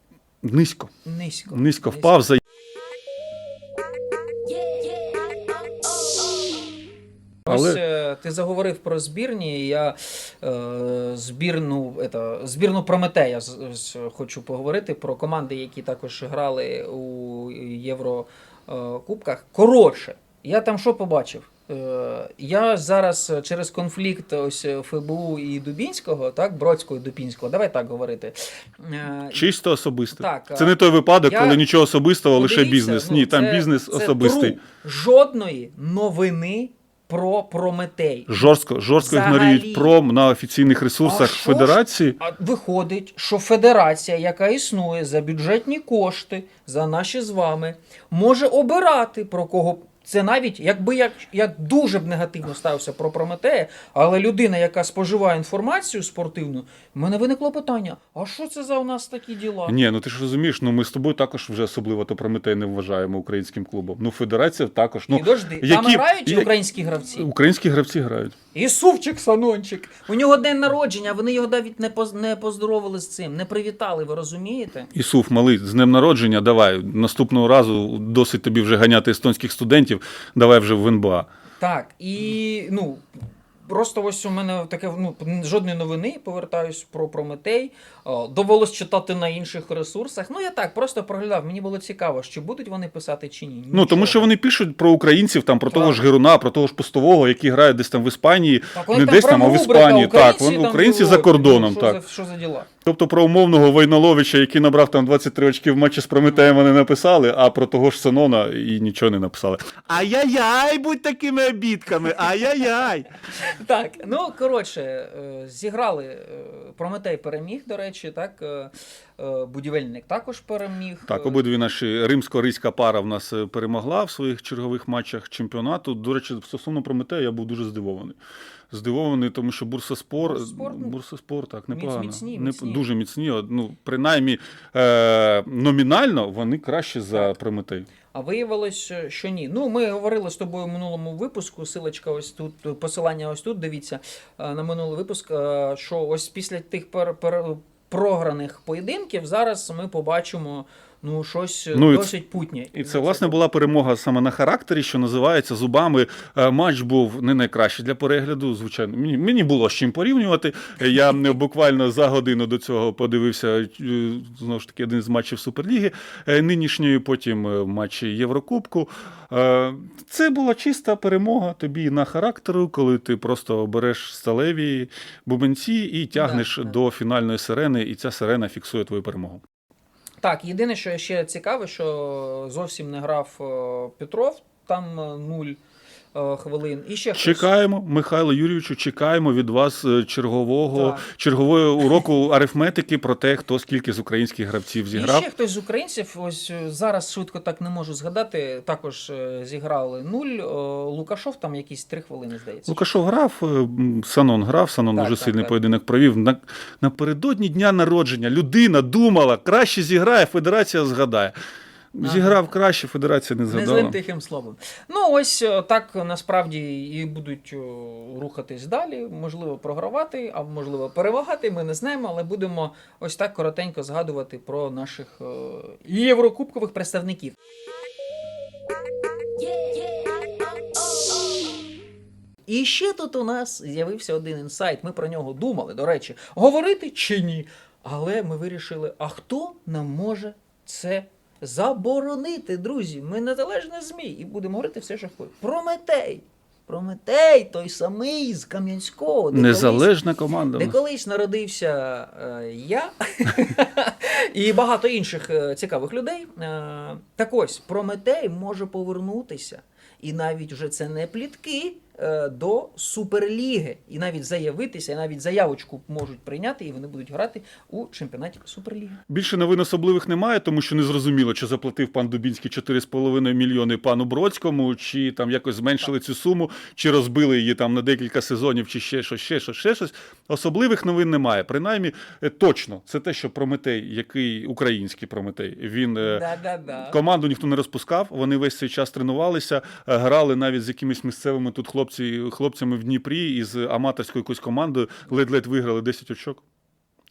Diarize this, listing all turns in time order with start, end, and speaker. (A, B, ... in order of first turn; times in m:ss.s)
0:00.4-0:00.9 A
0:01.0-0:02.2 B
0:01.5-0:02.4 A
0:04.5-0:06.5 B
0:07.4-0:29.5 B
0:07.5-0:07.8 A
0:29.3-0:34.6 A
0:30.1-0:31.6 B
0:32.3-0:38.4 B
0:38.3-0:42.2 A
0:39.0-0:39.9 B
0:41.0-0:59.8 B
0:59.7-1:06.5 A
1:05.1-1:07.3 B
1:07.0-1:08.3 A
1:08.5-1:14.9 B
1:14.9-1:21.3 A
1:21.6-1:23.0 B
1:23.6-1:34.3 B
1:33.7-1:42.0 A
1:35.7-1:36.0 B
1:38.7-1:42.7 B
1:42.8-1:53.1 A
1:53.3-2:01.4 B
2:01.1-2:08.2 A
2:08.7-2:17.9 A
2:10.2-2:11.0 B
2:11.7-2:12.8 B
2:18.1-2:33.5 B
2:31.7-2:32.1 A
2:32.7-2:59.4 A
2:56.1-2:56.8 B
3:00.2-3:05.6 B
3:06.1-3:07.5 B
3:07.1-3:15.3 A
3:10.7-3:11.0 B
3:14.9-3:22.9 B
3:22.7-3:31.3 A
3:24.9-3:25.5 B
3:31.9-3:34.0 A
3:32.0-3:32.4 B
3:33.5-3:47.4 B
3:49.4-3:51.7 B
3:52.5-4:09.9 B
4:09.3-4:10.8 A
4:10.5-4:29.0 B
4:29.1-4:46.2 A
4:46.0-4:47.0 B
4:46.8-4:56.4 A